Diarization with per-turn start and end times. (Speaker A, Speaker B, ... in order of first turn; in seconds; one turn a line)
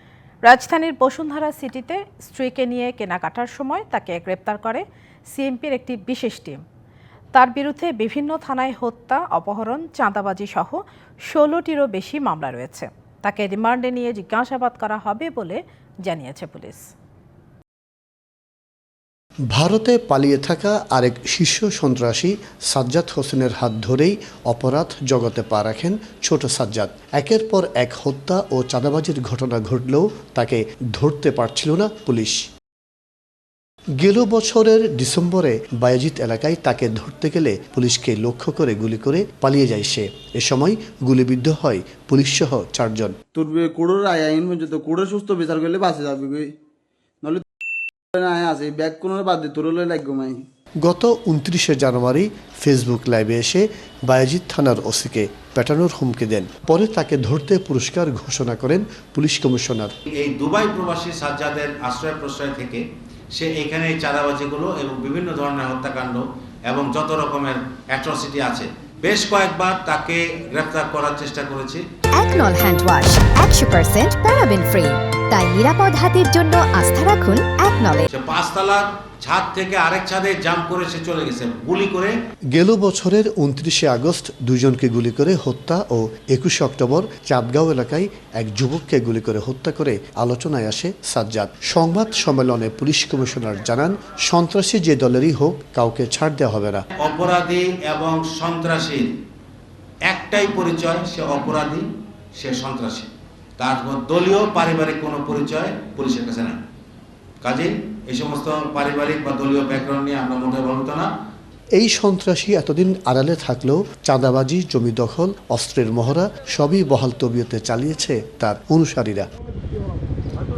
Speaker A: 0.5-6.6
Speaker A: 7.3-16.9
Speaker B: 19.5-32.4
Speaker B: 34.0-43.1
Speaker C: 43.3-46.5
Speaker C: 48.1-50.4
Speaker B: 50.8-59.9
Speaker D: 60.1-62.8
Speaker D: 63.3-71.8
Speaker E: 72.2-78.1
Speaker D: 78.1-82.1
Speaker B: 82.5-96.8
Speaker D: 97.0-99.1
Speaker D: 100.1-101.8
Speaker D: 102.4-106.6
Speaker D: 107.4-111.1
Speaker B: 111.8-119.3